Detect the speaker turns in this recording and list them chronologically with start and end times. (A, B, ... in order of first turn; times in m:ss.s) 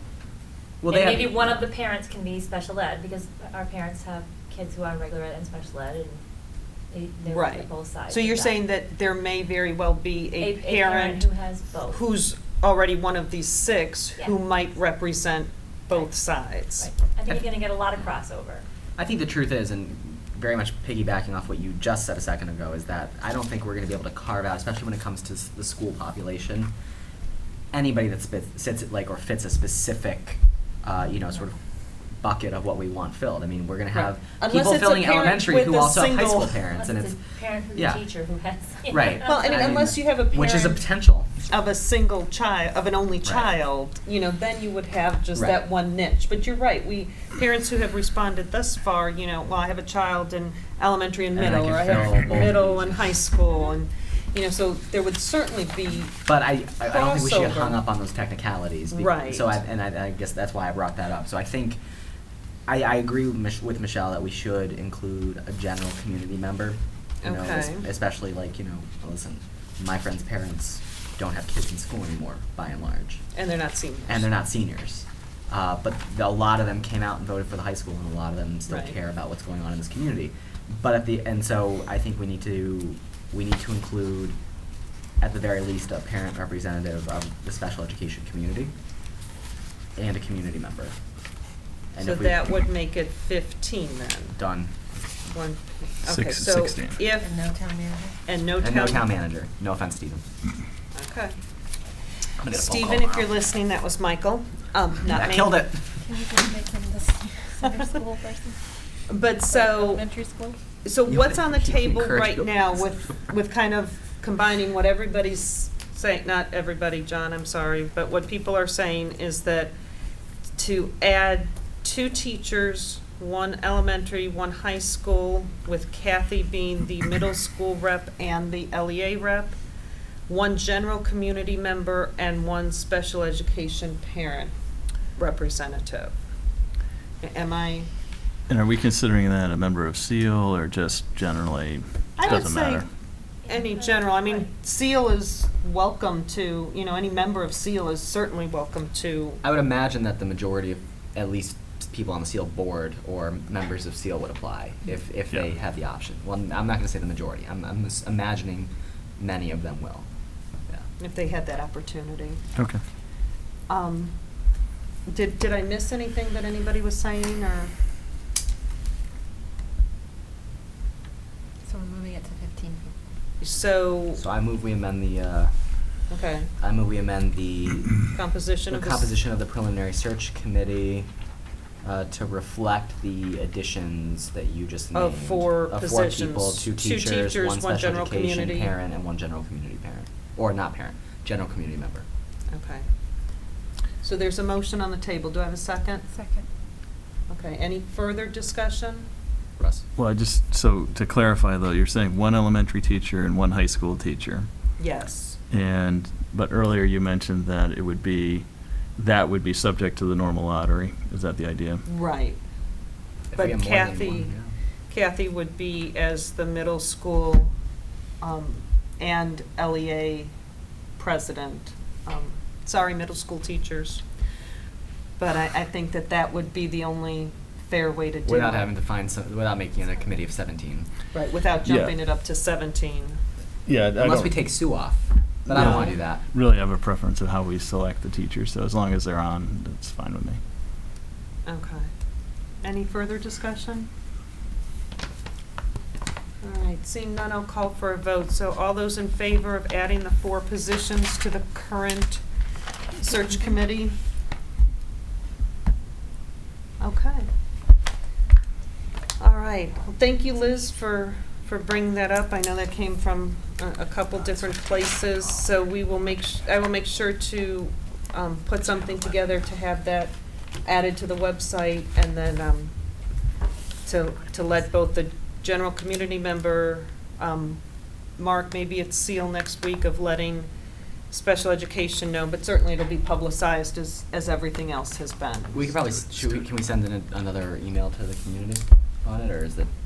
0:00.8-0:01.7 A
0:00.9-0:06.2 B
0:06.9-0:08.6 B
0:07.3-0:11.3 C
0:10.4-0:12.0 B
0:11.9-0:16.9 C
0:16.8-0:18.6 B
0:19.0-0:26.7 A
0:27.7-0:31.6 A
0:32.2-0:37.2 A
0:33.9-0:36.6 C
0:36.8-0:39.9 B
0:37.8-0:38.0 A
0:38.9-0:41.3 A
0:39.2-0:40.8 C
0:41.5-0:56.2 C
0:43.2-0:43.5 A
0:45.4-0:45.6 A
0:51.3-0:53.1 A
0:56.3-1:01.8 A
0:56.8-0:57.8 C
0:58.9-0:59.6 C
1:02.7-1:13.2 A
1:07.2-1:07.9 C
1:13.3-1:14.3 C
1:14.1-1:24.4 A
1:18.7-1:19.0 C
1:25.2-1:28.7 A
1:30.0-1:31.0 A
1:31.9-1:32.5 A
1:32.0-1:34.4 C
1:34.4-1:34.8 A
1:35.2-1:37.4 C
1:36.1-1:37.0 D
1:37.1-1:38.2 E
1:38.3-1:39.1 C
1:38.6-1:40.2 A
1:40.9-1:41.3 C
1:42.4-1:43.3 A
1:42.5-1:45.6 C
1:45.1-1:45.8 A
1:46.0-1:48.6 E
1:49.1-1:50.0 C
1:49.5-1:50.6 E
1:50.8-1:59.7 C
1:51.1-1:52.6 A
2:00.6-2:09.6 C
2:10.3-2:14.5 C
2:15.2-2:16.1 C
2:17.2-2:17.9 C
2:18.5-2:22.9 D
2:22.2-2:22.8 C
2:23.5-2:24.5 B
2:23.5-2:29.4 C
2:29.4-2:40.1 A
2:41.0-2:42.4 C
2:42.6-2:42.8 D
2:43.7-2:44.2 C
2:45.1-2:47.7 C
2:51.7-2:52.9 E
2:53.4-2:54.2 C
2:54.2-2:55.5 A
2:56.1-2:56.5 C
2:56.6-2:58.1 A
2:58.1-2:59.1 C
2:58.7-3:01.1 A
3:01.8-3:12.1 A
3:04.9-3:08.8 C
3:12.5-3:12.9 C
3:14.0-3:16.0 C
3:16.1-3:16.5 E
3:17.3-3:19.1 C
3:19.6-3:19.8 A
3:20.0-3:24.5 D
3:24.8-3:25.4 C
3:25.5-3:31.8 D
3:31.9-3:32.4 C
3:33.3-3:34.5 A
3:33.4-3:34.3 C
3:34.9-3:37.5 C
3:38.2-3:40.3 C
3:41.0-3:44.0 C
3:45.2-3:48.7 C
3:48.3-3:50.9 A
3:51.1-3:53.2 C
3:51.6-3:51.9 D
3:53.7-3:54.5 D
3:54.0-3:56.2 A
3:55.5-4:00.4 D
3:55.5-3:55.9 C
4:01.5-4:01.9 C
4:02.6-4:03.9 C
4:06.4-4:12.2 C
4:13.0-4:14.0 C
4:16.8-4:17.3 C
4:19.2-4:30.1 C
4:30.6-4:32.7 C
4:33.8-4:37.6 C
4:38.2-4:40.5 C
4:41.1-4:45.7 C
4:45.5-4:49.7 A